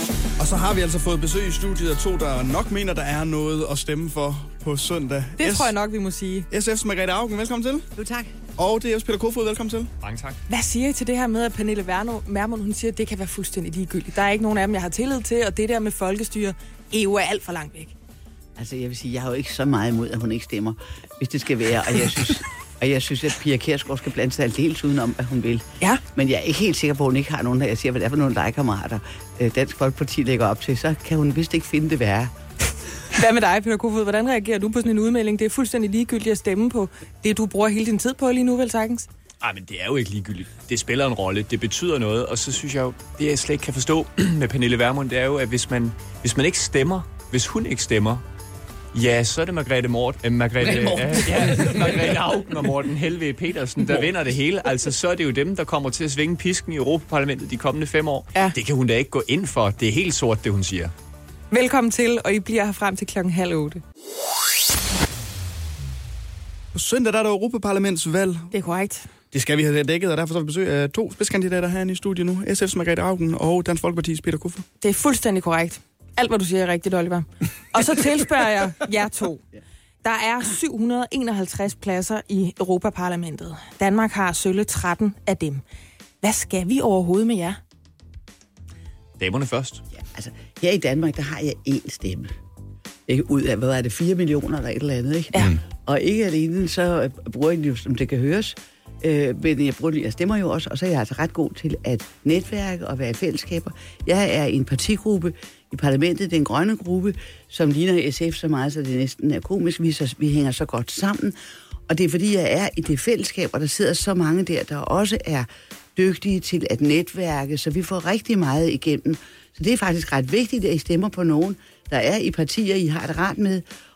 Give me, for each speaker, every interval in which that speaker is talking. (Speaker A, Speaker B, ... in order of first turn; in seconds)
Speaker A: 0.4-5.7, 6.5-7.8, 8.6-9.9, 66.7-68.5, 69.3-74.6
Speaker B: 5.4-6.5, 10.5-17.9, 33.1-39.1, 61.5-63.8, 68.5-69.1, 74.8-79.5, 80.0-85.6, 86.2-87.6
Speaker C: 8.0-8.3, 18.6-32.3, 50.6-52.0, 89.9-92.3, 93.1-111.3, 111.9-123.6
Speaker D: 10.0-10.4, 39.4-48.2, 48.9-60.9, 89.2-89.8